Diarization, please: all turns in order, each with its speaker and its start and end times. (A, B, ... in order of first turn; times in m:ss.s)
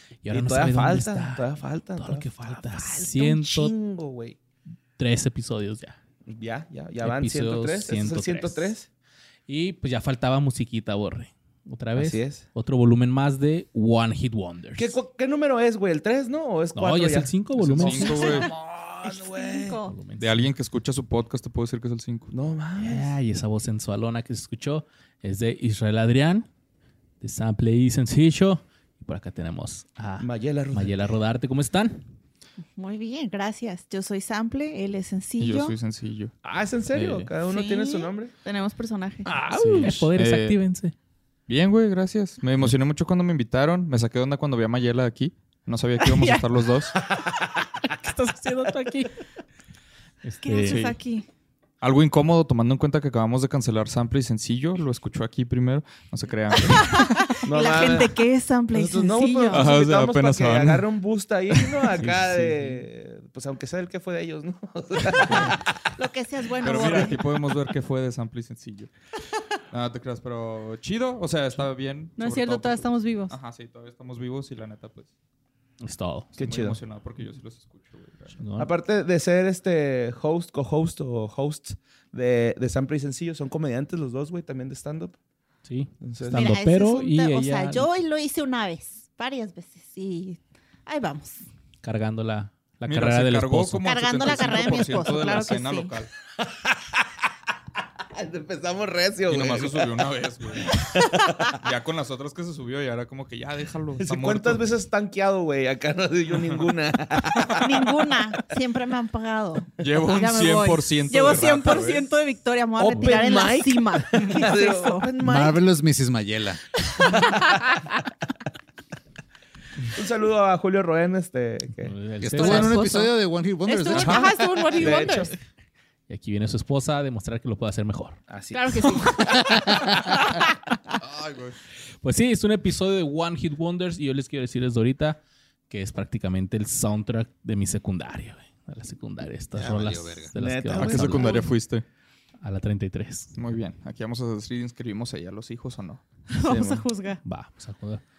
0:00.2-0:03.7 A
0:00.3-0:04.4 B
0:05.0-0:06.0 A
0:06.2-0:08.9 B
0:07.0-0:08.7 A
0:09.5-0:14.9 A
0:12.0-0:12.4 B
0:14.8-0:19.8 B
0:16.7-0:18.2 A
0:17.7-0:18.5 C
0:18.0-0:18.5 D
0:19.0-0:19.9 D
0:19.9-0:20.5 A
0:20.2-0:22.3 C
0:22.3-0:23.1 B
0:22.8-0:26.5 A
0:27.2-0:32.0 A
0:30.2-0:31.1 B
0:32.8-0:35.8 D
0:35.4-0:36.3 C
0:36.4-0:38.3 B
0:36.9-0:37.3 A
0:37.4-0:39.3 D
0:39.2-0:40.1 B
0:39.5-0:40.9 A
0:40.2-0:40.5 C
0:41.5-0:47.0 C
0:46.0-0:46.4 D
0:47.8-0:49.2 A
0:50.2-0:50.8 A
0:50.4-0:51.2 D
0:50.7-0:51.0 C
0:51.8-0:57.4 C
0:56.6-0:59.7 D
0:57.4-0:58.2 B
0:58.7-1:05.6 B
0:59.5-1:00.8 C
1:01.9-1:02.8 A
1:05.2-1:05.5 C
1:06.0-1:07.2 D
1:06.6-1:08.9 C
1:06.8-1:07.1 B
1:09.7-1:15.1 C
1:12.2-1:13.4 D
1:15.8-1:16.3 A
1:16.4-1:16.8 B
1:16.4-1:18.4 C
1:18.4-1:18.7 A
1:18.6-1:25.2 B
1:25.6-1:27.9 A
1:26.0-1:26.5 B
1:26.3-1:31.4 D
1:31.8-1:33.9 A
1:32.9-1:36.1 C
1:33.8-1:35.9 D
1:36.4-1:37.2 B
1:38.0-1:40.1 B
1:39.3-1:40.8 C
1:40.6-1:41.6 B
1:40.8-1:41.5 D
1:41.5-1:44.6 C
1:44.0-1:47.8 B
1:47.3-1:47.6 C
1:47.6-1:55.1 D
1:49.8-1:52.1 C
1:52.8-1:55.6 B
1:52.9-1:53.2 A
1:55.2-1:56.6 E
1:56.9-1:57.7 D
1:59.9-2:01.9 B
2:01.8-2:03.0 A
2:02.2-2:04.4 E
2:02.4-2:03.1 D
2:03.6-2:05.3 D
2:03.9-2:04.3 C
2:04.7-2:05.3 B
2:06.1-2:08.2 A
2:08.3-2:09.6 B
2:08.5-2:10.4 D
2:11.0-2:11.6 C
2:12.0-2:21.4 A
2:19.5-2:20.3 E
2:20.3-2:21.4 B
2:20.7-2:21.8 C
2:22.4-2:23.4 A
2:23.3-2:26.0 C
2:26.3-2:27.2 D
2:27.2-2:28.0 A